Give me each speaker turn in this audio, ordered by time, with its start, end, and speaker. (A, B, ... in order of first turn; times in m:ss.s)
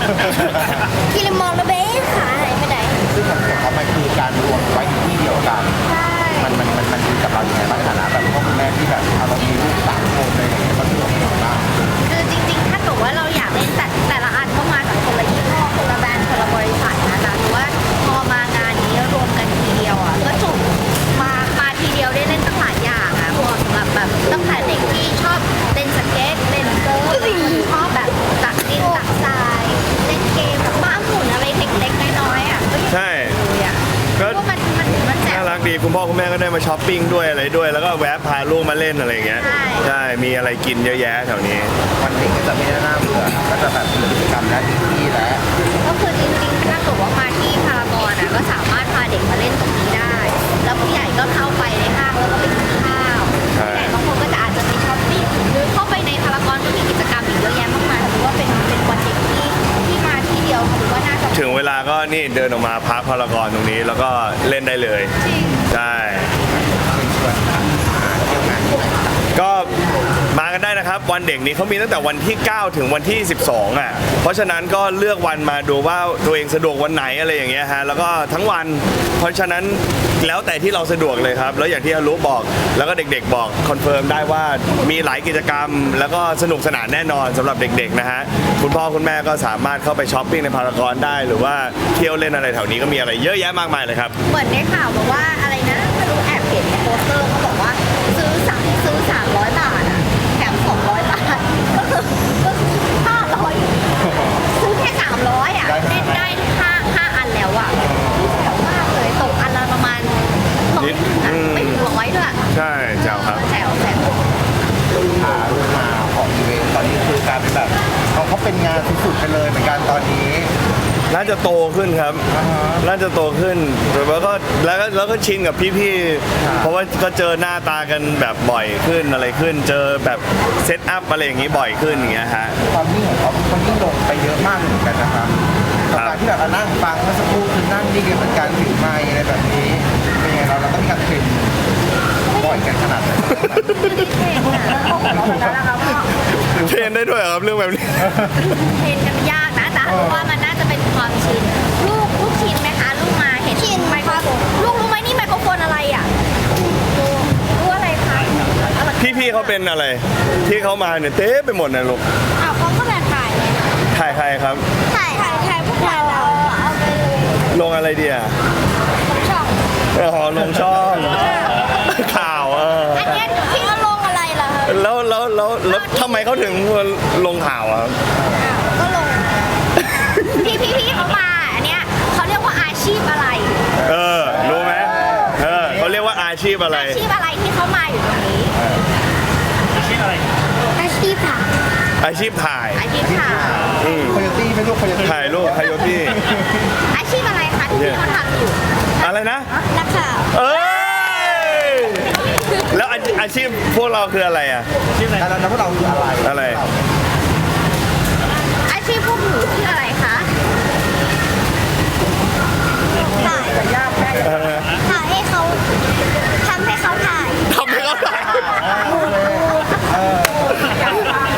0:01.1-0:03.0 A
0:03.1-0:05.8 B
0:05.9-0:06.4 C
0:06.4-0:11.8 B
0:12.0-0:35.6 C
0:27.1-0:27.7 A
0:32.9-0:33.4 D
0:35.3-0:41.7 D
0:39.3-0:39.9 C
0:42.0-0:45.4 B
0:45.8-1:01.7 C
0:53.5-0:54.0 D
1:01.3-1:05.1 D
1:05.2-1:05.6 C
1:05.7-1:06.3 D
1:06.4-1:09.2 B
1:09.3-1:09.7 D
1:10.3-1:34.2 D
1:34.2-1:43.8 C
1:44.0-1:44.4 B
1:44.5-1:52.4 C
1:45.6-1:46.4 B
1:47.8-1:48.3 B
1:50.8-1:51.8 D
1:52.5-1:53.4 D
1:53.0-1:54.1 C
1:55.0-2:00.5 B
2:01.1-2:02.2 D
2:02.3-2:02.9 B
2:02.8-2:12.6 D
2:06.4-2:06.7 B
2:11.8-2:21.6 B
2:15.9-2:16.2 D
2:22.3-2:22.6 C
2:22.3-2:24.0 B
2:23.5-2:26.1 C
2:25.0-2:25.5 B
2:26.5-2:28.3 D
2:28.6-2:36.1 C
2:29.8-2:30.3 B
2:33.5-2:34.3 A
2:37.0-2:39.6 C
2:39.0-2:42.0 D
2:42.4-2:43.8 A
2:43.9-2:44.6 D
2:44.9-2:46.5 A
2:45.2-2:47.4 C
2:47.5-2:48.3 D
2:49.1-2:49.6 A
2:49.9-2:53.2 D
2:51.2-2:51.7 C
2:52.9-2:54.8 C
2:53.3-2:54.0 A
2:54.6-2:58.0 D
2:55.6-2:56.4 C
2:58.4-2:59.3 A
3:00.2-3:03.6 C
3:03.8-3:06.0 B
3:03.8-3:07.0 D
3:06.6-3:08.5 C
3:08.5-3:08.8 B
3:10.8-3:11.5 A
3:12.0-3:12.8 D
3:12.7-3:13.7 C
3:13.0-3:16.4 B
3:13.8-3:14.2 D
3:15.0-3:16.2 D
3:16.9-3:19.1 C
3:17.7-3:18.0 D
3:19.0-3:19.5 D
3:19.6-3:20.3 A
3:20.3-3:24.7 D
3:25.1-3:26.8 B
3:26.2-3:26.6 D
3:28.6-3:30.3 C
3:33.1-3:33.7 A
3:34.2-3:34.8 D
3:34.8-3:35.6 A
3:36.4-3:37.5 A
3:37.5-3:38.7 D
3:38.3-3:40.7 B